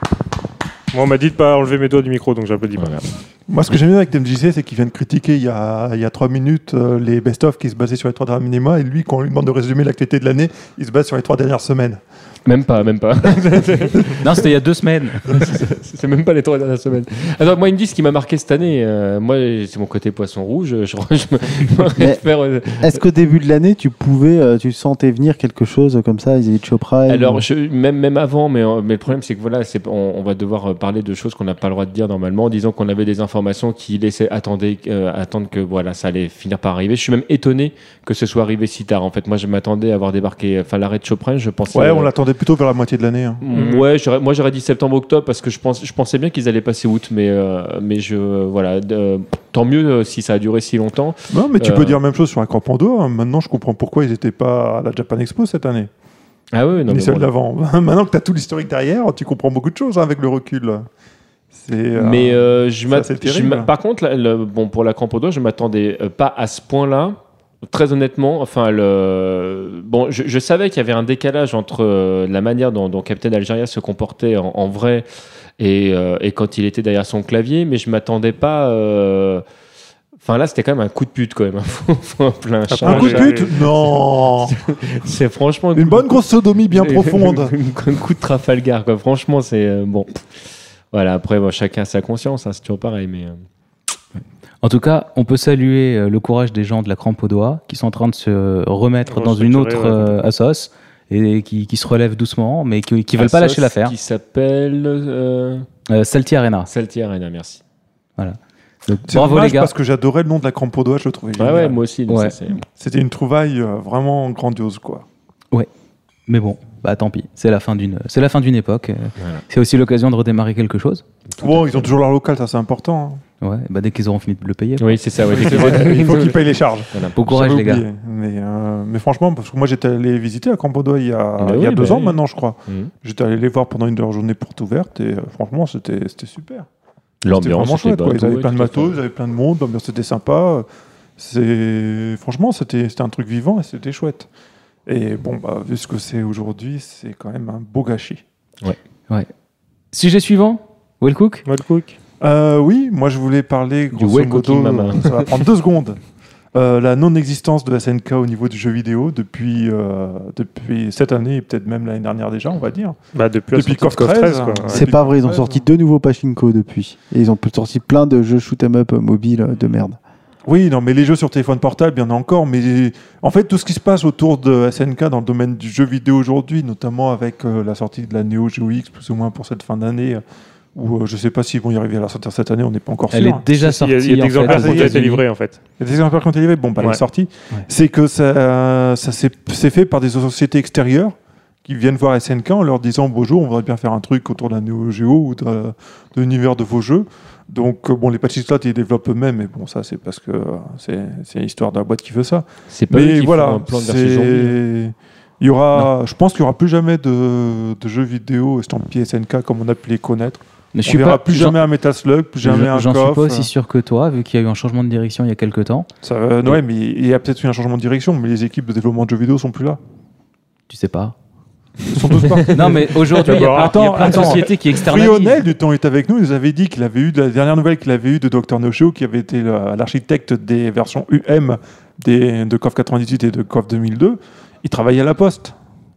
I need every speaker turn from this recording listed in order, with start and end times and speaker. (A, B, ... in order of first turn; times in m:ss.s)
0:00.9-0:03.0 A
0:02.8-0:03.0 B
0:03.5-0:12.0 C
0:12.4-0:14.2 B
0:14.2-0:15.3 D
0:15.2-0:23.0 B
0:22.0-0:22.2 E
0:22.7-0:27.4 E
0:27.1-0:42.1 B
0:41.7-0:43.4 C
0:43.4-0:52.0 B
0:43.5-0:43.8 A
0:51.3-0:55.9 C
0:56.5-0:57.3 B
0:56.9-1:00.8 C
1:01.5-1:03.7 C
1:02.0-1:15.1 B
1:15.6-1:19.4 B
1:20.2-1:30.2 B
1:22.7-1:23.5 A
1:22.8-1:24.6 C
1:25.7-1:27.5 C
1:30.9-1:33.4 B
1:34.6-1:43.9 D
1:39.0-1:40.3 A
1:43.2-1:45.7 B
1:45.9-1:46.7 D
1:46.7-1:47.6 B
1:48.2-1:49.7 D
1:49.1-1:51.8 C
1:51.4-1:52.6 B
1:52.1-1:52.4 D
1:52.8-1:55.0 C
1:56.3-2:01.0 D
2:01.3-2:01.9 B
2:01.4-2:03.2 C
2:03.4-2:05.0 D
2:04.8-2:07.2 B
2:05.3-2:16.7 C
2:07.2-2:07.8 D
2:11.4-2:12.9 B
2:17.2-2:19.0 B
2:17.3-2:20.6 C
2:21.2-2:24.3 C
2:24.8-2:28.2 C
2:29.9-2:31.4 D
2:31.4-2:32.0 A
2:32.2-2:36.0 C
2:33.9-2:35.4 B
2:36.5-2:43.0 C
2:43.1-2:44.9 A
2:43.5-2:45.6 C
2:44.7-2:50.0 E
2:50.5-3:00.2 C
3:00.7-3:03.5 C
3:03.1-3:05.2 D
3:03.6-3:05.6 A
3:04.4-3:05.0 C
3:05.8-3:33.5 C
3:22.7-3:24.6 B
3:30.7-3:31.6 D
3:32.4-3:35.9 D
3:36.0-3:39.8 C
3:40.7-3:41.1 D
3:41.9-3:55.5 C
3:42.5-3:45.4 D
3:43.2-3:44.4 A